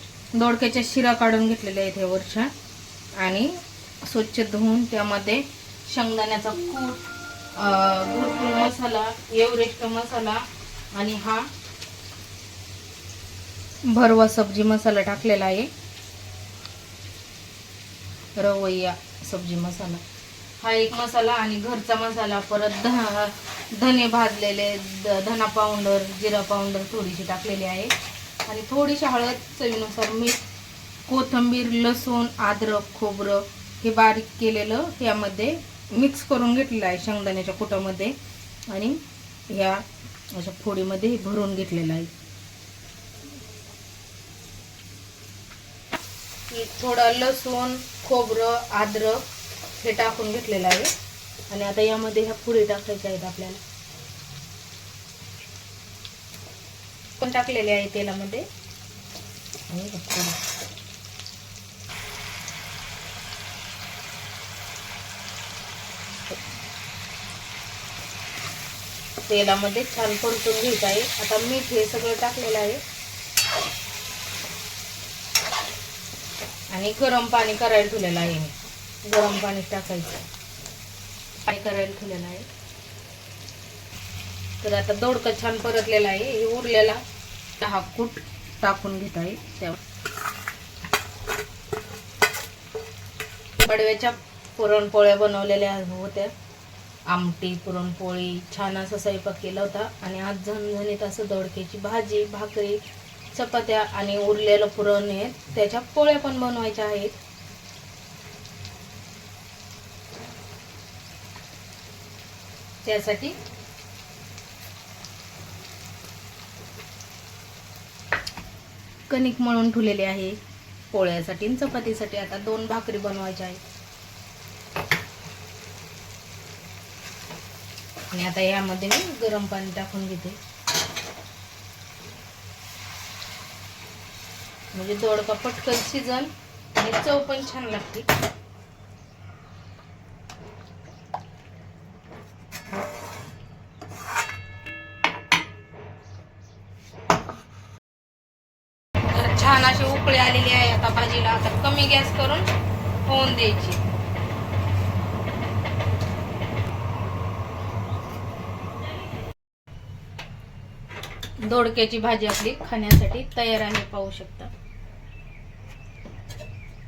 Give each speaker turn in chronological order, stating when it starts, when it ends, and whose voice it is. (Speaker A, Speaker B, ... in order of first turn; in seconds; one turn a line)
Speaker A: 0.3-2.5
Speaker A: 3.2-7.0
Speaker A: 7.5-11.5
Speaker A: 13.9-15.7
Speaker A: 18.4-20.0
Speaker A: 20.6-27.9
Speaker A: 28.5-30.4
Speaker A: 31.1-38.2
Speaker A: 38.7-42.1
Speaker A: 46.5-49.2
Speaker A: 49.8-50.9
Speaker A: 51.5-53.6
Speaker A: 57.2-58.5
Speaker A: 59.7-60.4
Speaker A: 69.3-72.8
Speaker A: 76.7-80.2
Speaker A: 81.5-82.5
Speaker A: 84.6-87.0
Speaker A: 87.6-89.8
Speaker A: 93.6-96.3
Speaker A: 97.1-102.8
Speaker A: 103.3-107.2
Speaker A: 112.8-113.3
Speaker A: 119.1-120.4
Speaker A: 120.9-123.6
Speaker A: 128.1-130.4
Speaker A: 134.7-138.1
Speaker A: 149.0-152.5
Speaker A: 153.1-153.8
Speaker A: 161.4-164.5